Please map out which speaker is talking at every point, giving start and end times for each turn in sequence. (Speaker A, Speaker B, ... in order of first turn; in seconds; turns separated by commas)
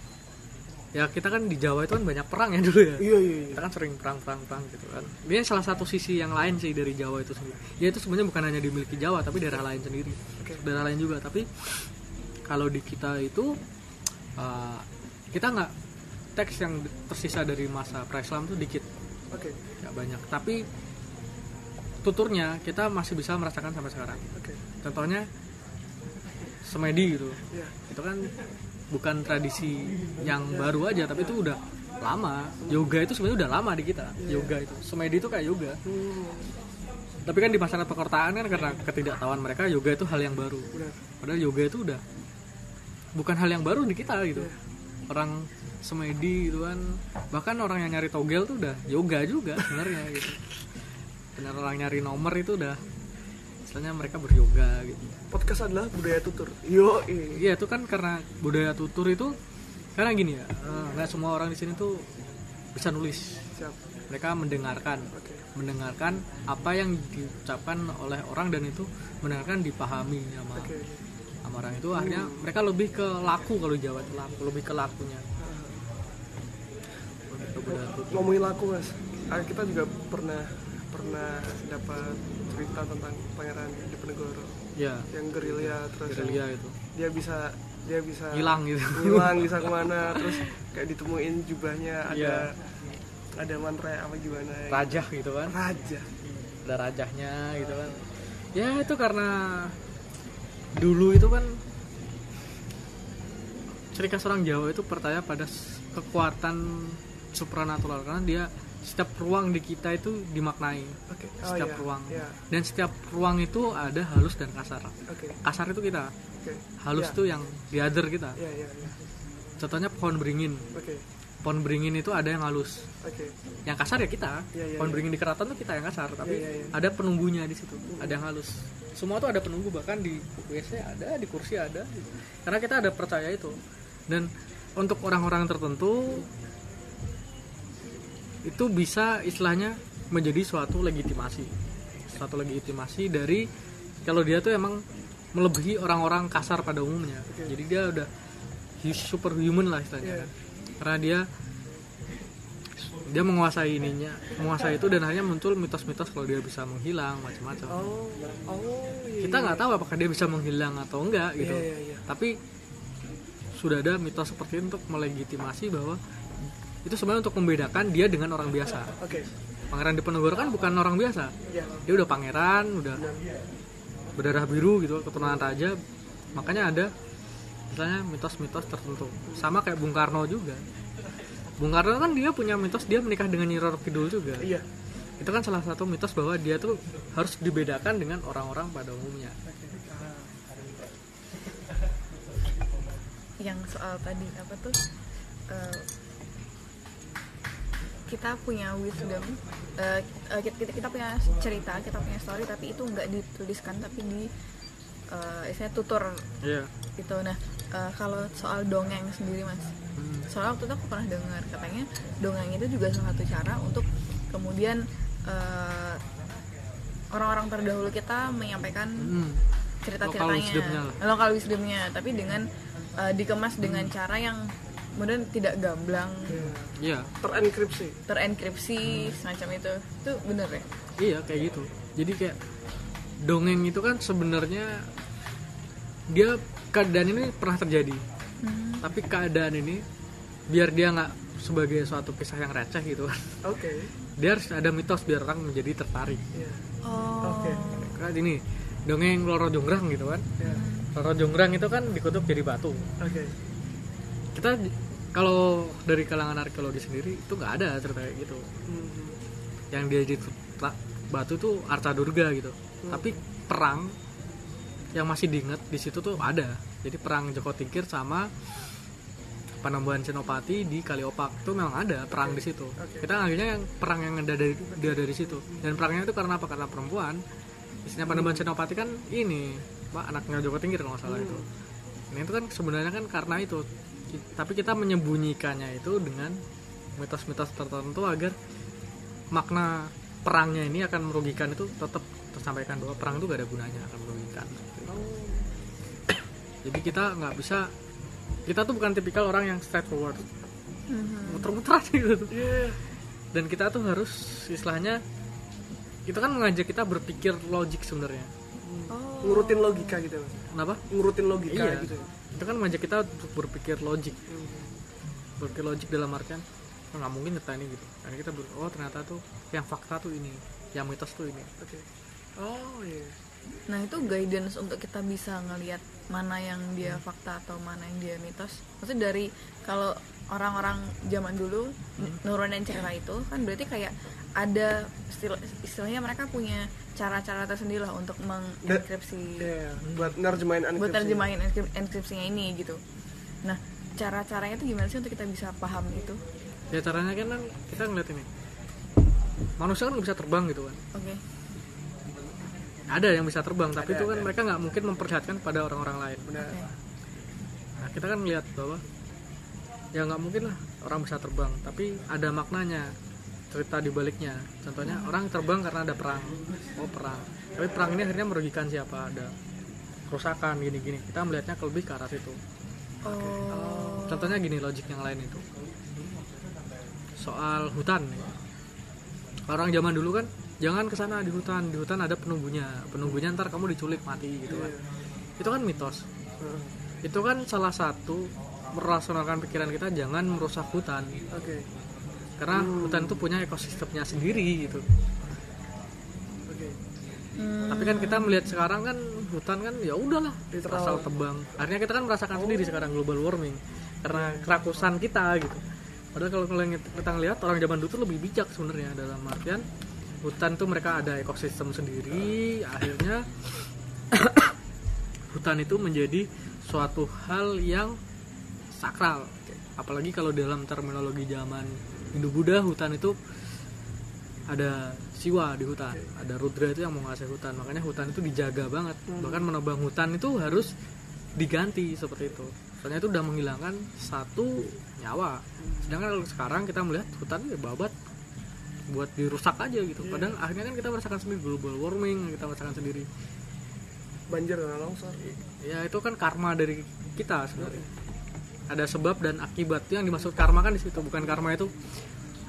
Speaker A: 0.9-11.9, Speaker B: 3.0-3.6, Speaker A: 12.5-13.6, Speaker A: 14.3-15.7, Speaker A: 16.4-18.9, Speaker B: 19.3-19.6, Speaker A: 19.8-20.6, Speaker A: 22.0-24.3, Speaker B: 24.3-24.6, Speaker A: 24.8-25.3, Speaker A: 26.6-28.3, Speaker A: 28.9-35.8, Speaker B: 30.5-31.3, Speaker B: 34.2-34.5, Speaker B: 35.9-36.5, Speaker A: 37.3-40.7, Speaker A: 41.2-42.0, Speaker A: 43.1-44.5, Speaker A: 45.1-50.5, Speaker A: 51.4-52.8, Speaker A: 53.7-55.1, Speaker B: 55.3-57.4, Speaker A: 57.3-59.3, Speaker A: 60.0-62.1, Speaker B: 60.7-61.1, Speaker A: 62.7-63.4, Speaker A: 64.1-70.7, Speaker B: 65.1-65.4, Speaker B: 70.5-71.0, Speaker A: 71.4-75.2, Speaker B: 71.9-72.4, Speaker B: 75.4-75.8, Speaker A: 77.3-78.4, Speaker B: 77.7-84.6, Speaker A: 84.8-86.8, Speaker B: 85.1-92.5, Speaker A: 88.3-90.5, Speaker A: 92.1-92.5, Speaker B: 93.3-95.0, Speaker A: 94.7-95.6, Speaker B: 95.5-96.1, Speaker A: 96.5-99.8, Speaker A: 100.8-101.6, Speaker A: 103.9-116.1, Speaker B: 111.1-112.4, Speaker B: 115.1-115.4, Speaker B: 116.4-117.2, Speaker A: 116.8-118.4, Speaker B: 118.4-119.0, Speaker A: 119.6-120.7, Speaker B: 120.7-121.0, Speaker A: 121.4-122.9, Speaker B: 123.0-123.3, Speaker A: 123.7-133.6, Speaker B: 124.5-125.0, Speaker B: 126.2-126.7, Speaker B: 127.9-128.2, Speaker A: 134.1-136.3, Speaker A: 138.4-141.6, Speaker A: 142.1-143.5, Speaker A: 144.0-144.8, Speaker A: 145.3-148.1, Speaker A: 148.8-151.2, Speaker B: 150.0-150.3, Speaker A: 152.8-157.8, Speaker B: 157.7-159.6, Speaker A: 159.2-162.3, Speaker B: 161.4-162.0, Speaker A: 163.6-166.0, Speaker A: 166.8-168.9, Speaker B: 169.0-169.3, Speaker A: 169.7-171.3, Speaker B: 171.5-171.8, Speaker A: 171.8-173.1, Speaker A: 174.2-175.8, Speaker B: 175.2-175.5, Speaker A: 176.3-176.9, Speaker A: 177.7-180.6, Speaker A: 181.6-184.5, Speaker B: 184.4-184.7, Speaker A: 185.2-189.4, Speaker B: 189.5-190.3, Speaker C: 193.4-194.8, Speaker C: 195.5-195.9, Speaker C: 198.1-204.3, Speaker C: 205.1-206.3, Speaker A: 206.4-206.7, Speaker C: 207.0-209.7, Speaker A: 209.9-210.3, Speaker C: 210.3-216.0, Speaker C: 217.1-219.1, Speaker A: 219.0-219.4, Speaker C: 219.8-222.4, Speaker A: 220.0-221.0, Speaker C: 223.0-226.5, Speaker A: 223.6-223.9, Speaker B: 226.3-228.0, Speaker A: 226.8-227.1, Speaker C: 228.1-230.7, Speaker A: 228.8-229.1, Speaker A: 231.0-232.4, Speaker A: 233.2-234.9, Speaker A: 236.1-238.0, Speaker C: 238.4-238.8, Speaker A: 238.8-239.8, Speaker A: 240.5-243.4, Speaker B: 243.4-243.9, Speaker A: 244.2-246.2, Speaker B: 246.3-246.6, Speaker C: 246.8-248.0, Speaker B: 247.2-247.7, Speaker A: 247.9-250.3, Speaker C: 250.4-250.9, Speaker A: 250.9-252.9, Speaker B: 253.0-253.3, Speaker A: 254.3-258.4, Speaker B: 258.7-259.1, Speaker A: 259.7-263.9, Speaker B: 262.8-263.1, Speaker A: 264.9-268.3, Speaker A: 269.6-277.2, Speaker B: 272.1-273.1, Speaker B: 274.7-275.7, Speaker A: 277.9-281.4, Speaker B: 278.1-278.4, Speaker B: 281.1-281.5, Speaker A: 282.1-286.4, Speaker A: 287.0-288.4, Speaker A: 289.3-295.0, Speaker B: 294.9-295.5, Speaker A: 296.6-297.7, Speaker A: 298.5-300.3, Speaker C: 300.9-301.5, Speaker A: 301.3-302.6, Speaker B: 302.3-302.8, Speaker A: 303.3-305.0, Speaker A: 306.1-308.3, Speaker B: 308.6-312.1, Speaker C: 308.9-310.0, Speaker A: 310.5-310.8, Speaker A: 311.5-314.2, Speaker B: 314.3-314.7, Speaker A: 315.4-321.5, Speaker B: 321.6-321.9, Speaker B: 322.4-323.2, Speaker C: 323.7-339.5, Speaker B: 339.4-341.3, Speaker A: 339.8-340.1, Speaker C: 340.8-342.8, Speaker C: 343.4-346.2, Speaker A: 346.7-348.3, Speaker A: 349.6-350.8, Speaker C: 350.9-351.2, Speaker A: 352.9-356.5, Speaker B: 353.8-354.3, Speaker B: 356.3-356.6, Speaker A: 357.8-358.8, Speaker A: 359.9-362.9, Speaker A: 363.5-369.3, Speaker C: 364.9-365.1, Speaker A: 370.1-372.4, Speaker C: 373.0-374.4, Speaker A: 373.1-373.4, Speaker B: 373.5-374.1, Speaker A: 374.0-375.4, Speaker A: 377.2-378.4, Speaker A: 379.5-384.7, Speaker B: 384.5-384.9, Speaker A: 385.4-386.1, Speaker B: 386.4-386.7, Speaker A: 387.0-391.2, Speaker B: 391.3-391.7, Speaker A: 392.4-394.9, Speaker B: 392.5-393.2, Speaker B: 396.5-396.8, Speaker C: 397.4-398.5, Speaker A: 397.7-405.6, Speaker B: 400.5-401.1, Speaker B: 402.3-402.9, Speaker B: 404.1-404.5, Speaker A: 406.1-409.6, Speaker A: 410.2-414.5, Speaker A: 415.3-418.0, Speaker A: 418.8-423.2, Speaker A: 424.5-430.7, Speaker B: 429.1-429.4, Speaker A: 431.4-437.9, Speaker A: 438.9-443.1, Speaker B: 440.0-440.4, Speaker B: 444.3-445.2, Speaker A: 445.2-447.9, Speaker B: 447.6-447.9, Speaker A: 448.7-451.7